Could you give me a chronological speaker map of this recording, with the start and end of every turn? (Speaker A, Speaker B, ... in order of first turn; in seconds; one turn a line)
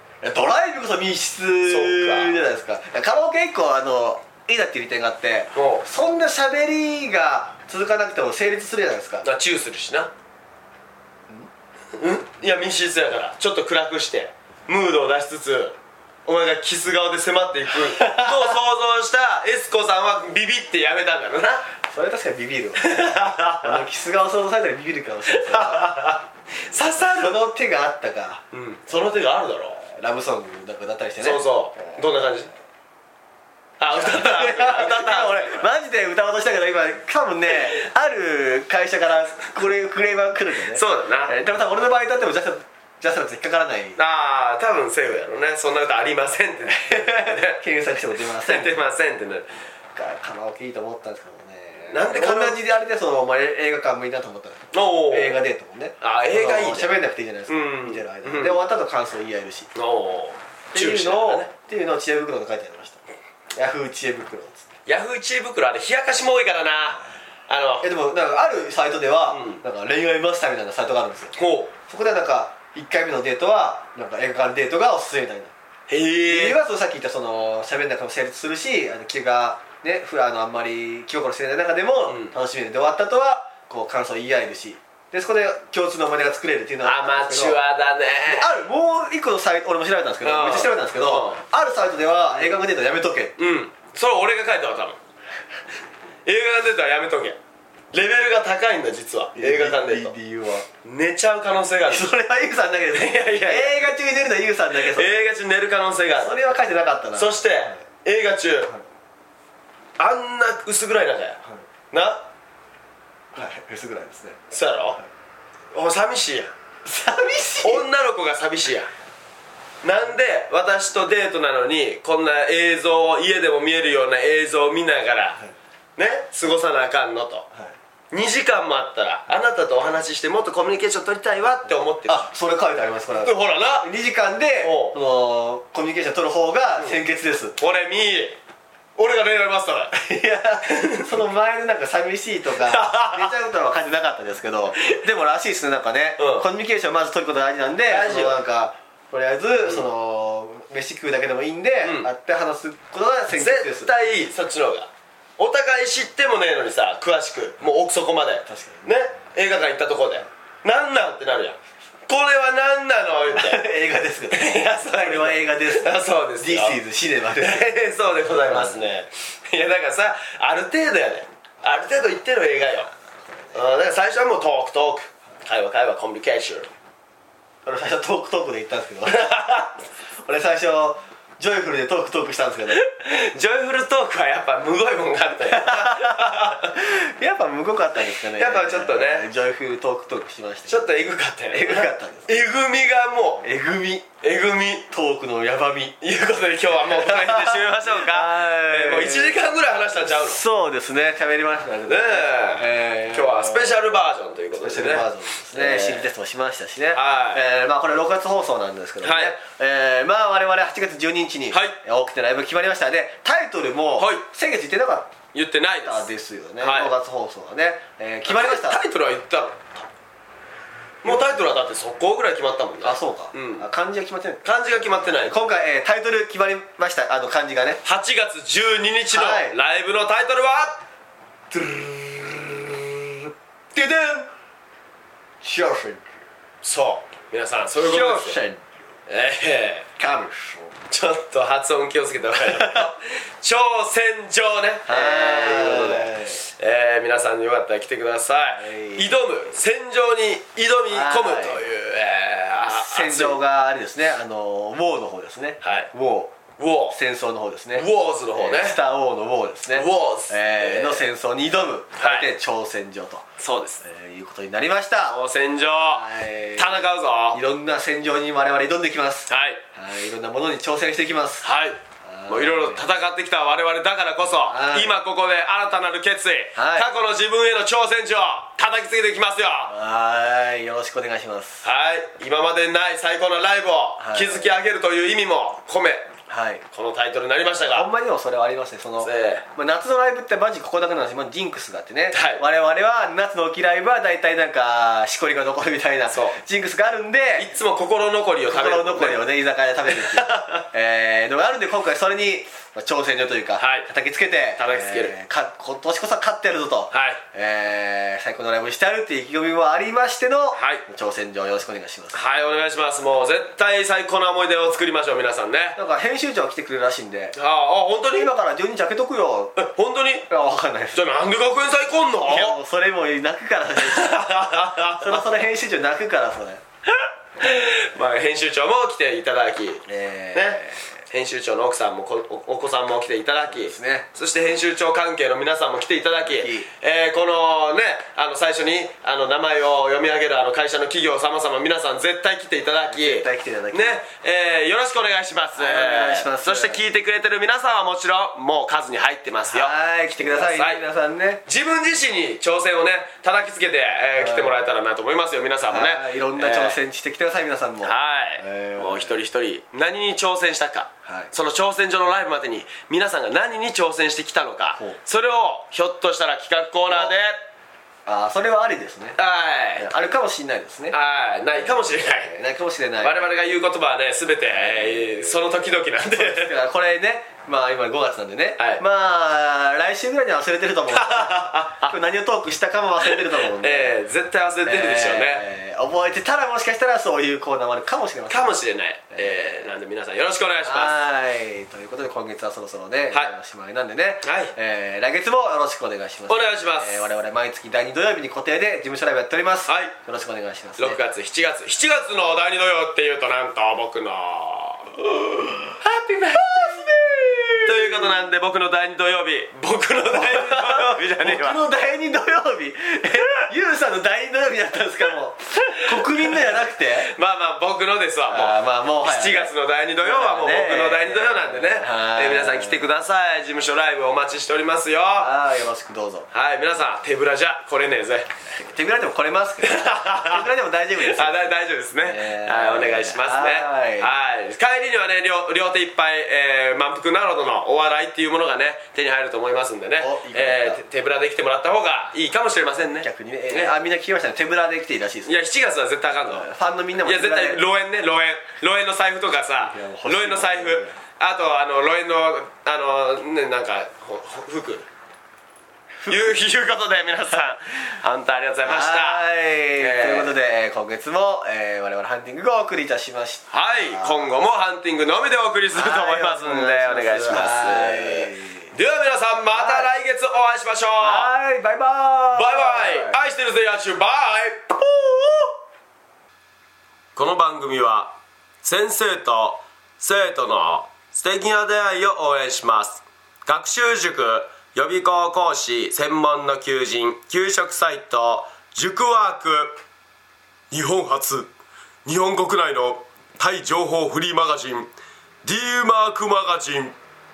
Speaker A: 0.2-9.3
Speaker B: 1.7-2.4
Speaker B: 5.5-5.8
Speaker B: 9.2-10.1
Speaker B: 11.9-21.7
Speaker A: 17.8-18.5
Speaker A: 21.9-26.0
Speaker B: 22.8-23.9
Speaker B: 25.3-27.4
Speaker A: 27.0-28.4
Speaker B: 28.5-29.8
Speaker A: 29.8-32.0
Speaker B: 31.2-32.5
Speaker B: 33.8-35.7
Speaker A: 33.9-44.0
Speaker B: 40.7-41.3
Speaker B: 44.0-47.6
Speaker A: 46.7-48.8
Speaker B: 48.4-49.5
Speaker A: 50.0-59.7
Speaker B: 51.9-52.6
Speaker B: 54.7-55.4
Speaker B: 56.0-56.9
Speaker B: 57.5-58.6
Speaker B: 59.8-61.5
Speaker A: 60.7-63.0
Speaker A: 63.5-64.7
Speaker B: 64.9-67.9
Speaker A: 67.8-71.3
Speaker B: 69.3-69.6
Speaker B: 71.4-71.7
Speaker A: 71.9-75.5
Speaker B: 75.9-76.6
Speaker A: 76.3-87.6
Speaker B: 82.1-82.3
Speaker B: 86.8-88.5
Speaker A: 88.3-93.4
Speaker B: 90.2-91.4
Speaker B: 93.4-95.0
Speaker B: 96.3-97.4
Speaker B: 97.9-100.1
Speaker A: 99.3-100.7
Speaker B: 100.8-102.1
Speaker A: 101.9-105.1
Speaker B: 102.9-103.9
Speaker B: 104.8-106.3
Speaker A: 106.2-107.8
Speaker B: 107.2-108.7
Speaker B: 110.0-111.4
Speaker B: 111.9-112.2
Speaker A: 113.3-114.4
Speaker B: 114.5-115.0
Speaker B: 115.7-116.5
Speaker A: 116.8-117.8
Speaker B: 117.6-118.9
Speaker B: 119.8-125.4
Speaker B: 126.0-127.5
Speaker B: 128.1-132.3
Speaker A: 132.1-137.6
Speaker B: 133.2-133.9
Speaker B: 134.6-135.0
Speaker B: 137.6-138.4
Speaker B: 139.0-139.9
Speaker A: 139.9-153.9
Speaker B: 140.7-141.2
Speaker B: 142.7-143.3
Speaker B: 146.2-146.5
Speaker B: 147.8-148.4
Speaker B: 153.3-163.6
Speaker A: 158.5-158.9
Speaker A: 163.3-167.7
Speaker B: 164.3-166.8
Speaker B: 167.4-172.9
Speaker A: 168.4-168.9
Speaker B: 173.5-176.7
Speaker A: 177.7-179.4
Speaker B: 179.1-179.7
Speaker A: 180.2-182.8
Speaker B: 182.7-186.7
Speaker A: 185.5-190.9
Speaker B: 188.2-189.3
Speaker B: 190.7-193.5
Speaker A: 191.5-192.3
Speaker A: 193.4-194.1
Speaker B: 194.2-194.9
Speaker A: 194.9-196.0
Speaker B: 196.0-200.4
Speaker A: 196.7-199.4
Speaker A: 200.2-203.8
Speaker B: 201.9-206.1
Speaker A: 204.6-215.2
Speaker B: 206.9-207.4
Speaker B: 209.0-209.3
Speaker B: 211.5-211.8
Speaker B: 214.0-214.2
Speaker B: 215.3-216.1
Speaker A: 215.8-218.8
Speaker B: 216.6-216.9
Speaker B: 218.3-219.7
Speaker B: 221.0-223.7
Speaker A: 222.8-227.8
Speaker B: 224.4-225.3
Speaker B: 227.8-230.8
Speaker A: 229.1-229.6
Speaker A: 231.5-234.3
Speaker A: 235.4-236.1
Speaker B: 236.6-238.4
Speaker A: 237.8-238.6
Speaker B: 239.1-239.9
Speaker A: 240.0-240.8
Speaker B: 240.9-253.4
Speaker A: 242.5-242.8
Speaker A: 244.9-246.4
Speaker A: 248.6-249.1
Speaker A: 250.9-251.6
Speaker A: 252.7-256.4
Speaker B: 255.6-255.9
Speaker B: 256.6-257.0
Speaker A: 256.9-263.3
Speaker B: 257.8-258.8
Speaker B: 259.7-261.1
Speaker B: 262.0-262.3
Speaker B: 263.4-263.8
Speaker A: 263.8-271.5
Speaker B: 265.1-266.0
Speaker B: 266.6-267.4
Speaker B: 269.3-269.6
Speaker B: 271.4-279.7
Speaker A: 272.0-272.9
Speaker A: 274.5-274.9
Speaker A: 276.6-276.9
Speaker A: 279.7-281.7
Speaker B: 281.6-286.1
Speaker A: 284.0-284.5
Speaker A: 286.3-286.6
Speaker B: 286.7-287.9
Speaker A: 287.6-297.5
Speaker B: 289.0-289.5
Speaker B: 292.1-292.4
Speaker B: 296.1-296.4
Speaker B: 297.4-299.2
Speaker A: 298.5-312.2
Speaker B: 299.9-300.6
Speaker B: 303.6-303.9
Speaker B: 304.6-305.1
Speaker B: 306.9-307.2
Speaker B: 310.6-310.8
Speaker B: 312.1-315.8
Speaker A: 315.8-317.4
Speaker B: 317.4-318.3
Speaker A: 318.1-319.6
Speaker B: 319.6-320.3
Speaker A: 320.3-321.0
Speaker B: 320.9-322.6
Speaker A: 322.2-324.2
Speaker B: 323.8-325.3
Speaker A: 325.0-326.6
Speaker B: 327.4-350.8
Speaker A: 329.9-330.9
Speaker A: 333.5-334.1
Speaker A: 336.1-336.7
Speaker A: 342.8-344.0
Speaker A: 345.6-346.8
Speaker A: 349.5-351.4
Speaker B: 351.5-356.8
Speaker A: 354.2-354.6
Speaker A: 355.7-359.2
Speaker B: 357.8-367.4
Speaker A: 361.1-361.3
Speaker A: 368.1-369.2
Speaker B: 369.2-369.9
Speaker A: 369.8-371.0
Speaker B: 370.9-372.3
Speaker A: 371.5-373.3
Speaker B: 373.0-376.5
Speaker A: 374.4-375.4
Speaker A: 376.1-384.0
Speaker B: 380.9-382.0
Speaker B: 383.0-385.4
Speaker A: 384.7-388.5
Speaker B: 388.3-390.9
Speaker A: 389.1-389.5
Speaker A: 390.6-401.0
Speaker B: 394.2-394.5
Speaker B: 396.3-397.1
Speaker B: 399.7-399.9
Speaker B: 400.8-406.9
Speaker A: 406.3-408.1
Speaker B: 407.6-411.6
Speaker A: 410.1-417.1
Speaker B: 415.9-425.3
Speaker A: 418.3-422.9
Speaker A: 425.1-426.3
Speaker B: 426.3-428.3
Speaker A: 428.5-434.1
Speaker B: 429.6-430.5
Speaker B: 431.1-443.7
Speaker A: 440.0-440.8
Speaker A: 443.0-445.4
Speaker B: 445.3-446.5
Speaker A: 446.3-447.6
Speaker B: 447.0-454.9
Speaker A: 449.6-451.0
Speaker A: 456.0-456.4
Speaker B: 456.1-459.2
Speaker A: 458.6-464.3
Speaker B: 459.8-460.4
Speaker B: 463.5-471.3
Speaker A: 465.7-468.7
Speaker A: 469.5-469.9
Speaker A: 471.0-473.2
Speaker B: 472.4-475.5
Speaker B: 477.1-489.8
Speaker B: 490.7-491.5
Speaker B: 492.1-494.9
Speaker B: 495.4-496.9